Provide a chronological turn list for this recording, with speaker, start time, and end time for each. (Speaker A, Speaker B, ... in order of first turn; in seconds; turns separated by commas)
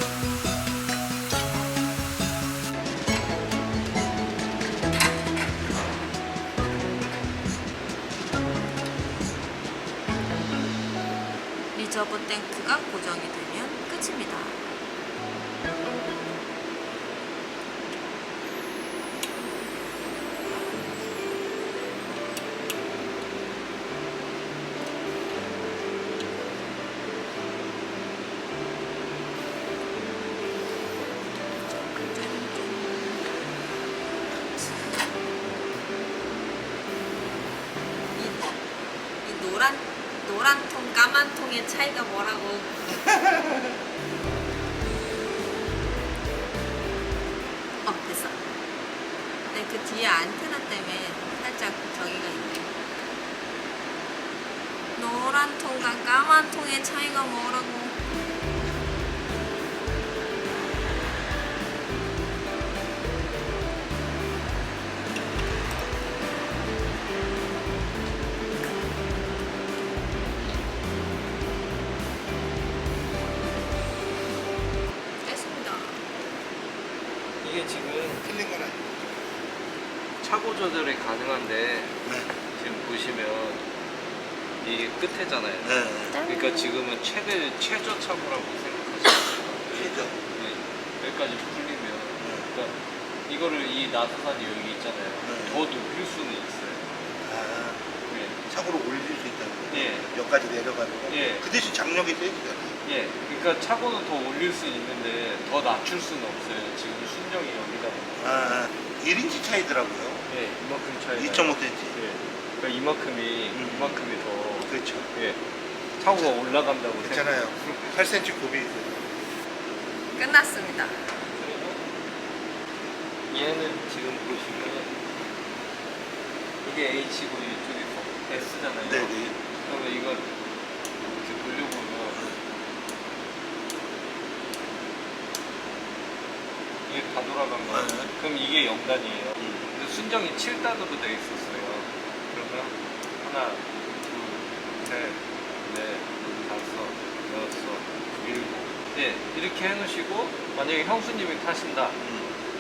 Speaker A: 11.7-14.6, Speaker A: 31.9-33.1, Speaker A: 38.1-38.6, Speaker A: 39.2-43.0, Speaker B: 43.2-43.7, Speaker A: 47.8-48.4, Speaker A: 49.5-52.7, Speaker A: 55.0-58.0, Speaker A: 75.2-76.1, Speaker C: 77.4-78.2, Speaker B: 78.2-78.9, Speaker C: 80.2-82.0, Speaker B: 82.0-82.3, Speaker C: 82.5-83.6, Speaker C: 84.6-92.8, Speaker B: 85.6-86.2, Speaker A: 86.1-86.7, Speaker B: 89.7-90.2, Speaker B: 92.2-92.5, Speaker C: 93.3-96.8, Speaker B: 95.2-95.7, Speaker B: 97.2-97.9, Speaker C: 98.1-98.4, Speaker B: 98.5-102.8, Speaker C: 99.7-100.1, Speaker C: 101.1-101.4, Speaker C: 102.8-108.5, Speaker B: 108.2-110.3, Speaker C: 110.3-115.4, Speaker B: 111.1-112.0, Speaker B: 113.5-115.1, Speaker C: 116.0-117.8, Speaker B: 116.1-116.3, Speaker B: 117.0-119.1, Speaker A: 120.1-121.2, Speaker C: 121.2-121.8, Speaker C: 123.3-124.9, Speaker C: 126.6-130.3, Speaker B: 128.8-129.4, Speaker C: 131.2-132.2, Speaker B: 132.1-132.4, Speaker C: 136.8-151.9, Speaker B: 137.6-138.1, Speaker B: 139.4-139.7, Speaker B: 152.0-152.3